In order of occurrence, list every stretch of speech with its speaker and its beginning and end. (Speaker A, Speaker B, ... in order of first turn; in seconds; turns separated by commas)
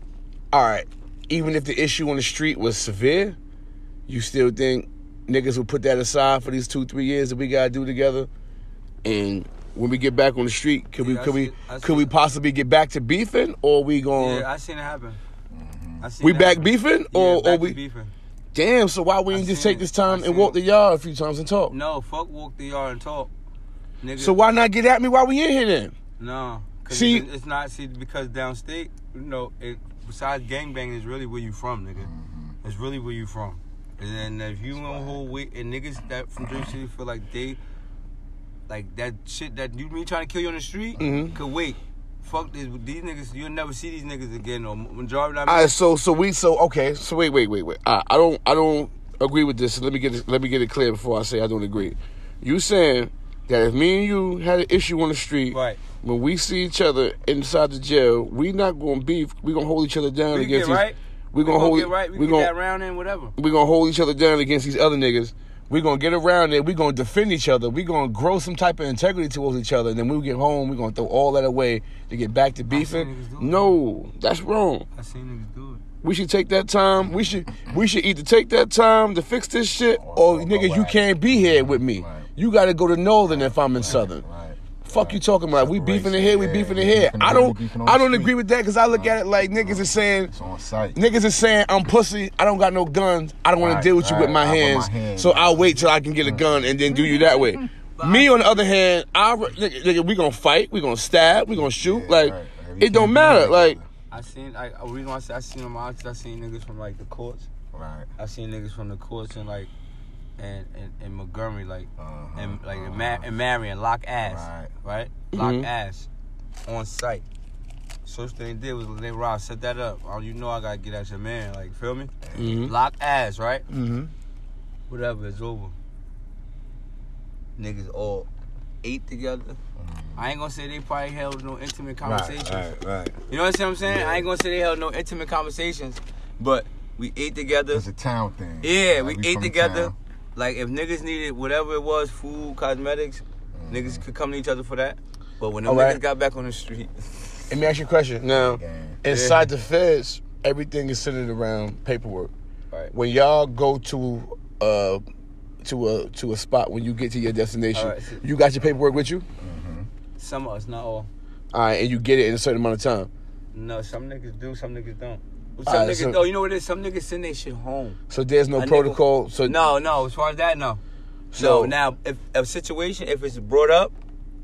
Speaker A: 0.5-3.4, Speaker A: 4.1-8.3, Speaker A: 9.0-14.5, Speaker B: 11.0-12.1, Speaker B: 14.2-15.2, Speaker C: 15.5-16.1, Speaker B: 16.0-18.1, Speaker A: 16.2-17.8, Speaker A: 18.5-21.7, Speaker B: 19.3-20.6, Speaker B: 21.7-23.3, Speaker B: 24.0-24.4, Speaker A: 24.2-25.9, Speaker B: 26.2-32.1, Speaker A: 26.9-27.3, Speaker C: 32.0-32.6, Speaker B: 32.6-37.6, Speaker C: 34.7-35.3, Speaker B: 38.7-45.8, Speaker C: 41.0-41.4, Speaker A: 41.0-41.4, Speaker A: 45.5-62.5, Speaker B: 55.5-55.8, Speaker B: 60.3-63.3, Speaker A: 63.4-74.9, Speaker B: 72.7-73.8, Speaker B: 75.0-75.8, Speaker A: 76.0-84.2, Speaker C: 79.9-82.3, Speaker C: 83.2-88.3, Speaker A: 84.8-90.3, Speaker C: 88.9-91.1, Speaker A: 91.0-103.8, Speaker C: 93.6-97.2, Speaker B: 98.0-98.6, Speaker C: 101.5-103.9, Speaker B: 104.1-107.5, Speaker C: 107.7-108.1, Speaker B: 108.2-109.7, Speaker B: 110.4-116.1, Speaker C: 112.0-113.3, Speaker C: 114.2-114.7, Speaker A: 115.3-115.7, Speaker B: 116.7-117.2, Speaker B: 118.0-122.1, Speaker C: 122.2-122.7, Speaker A: 122.4-122.7, Speaker B: 122.6-123.7, Speaker A: 123.7-124.1, Speaker B: 124.9-125.8, Speaker B: 127.6-128.3, Speaker B: 128.8-129.6, Speaker C: 129.8-130.3, Speaker B: 130.2-132.7, Speaker C: 132.0-133.2, Speaker B: 133.3-137.8, Speaker C: 133.8-134.3, Speaker C: 137.7-139.9, Speaker B: 138.6-147.5, Speaker C: 143.6-144.1, Speaker A: 145.7-146.0, Speaker A: 147.5-152.3, Speaker C: 148.3-149.1, Speaker B: 149.1-149.5, Speaker A: 152.9-155.0, Speaker A: 155.6-159.3, Speaker B: 157.7-158.2, Speaker C: 159.4-159.9, Speaker B: 160.2-161.1, Speaker A: 161.5-163.1, Speaker B: 163.5-168.0, Speaker A: 165.7-166.2, Speaker A: 168.1-169.7, Speaker B: 168.6-170.8, Speaker A: 171.3-171.7, Speaker B: 171.3-173.9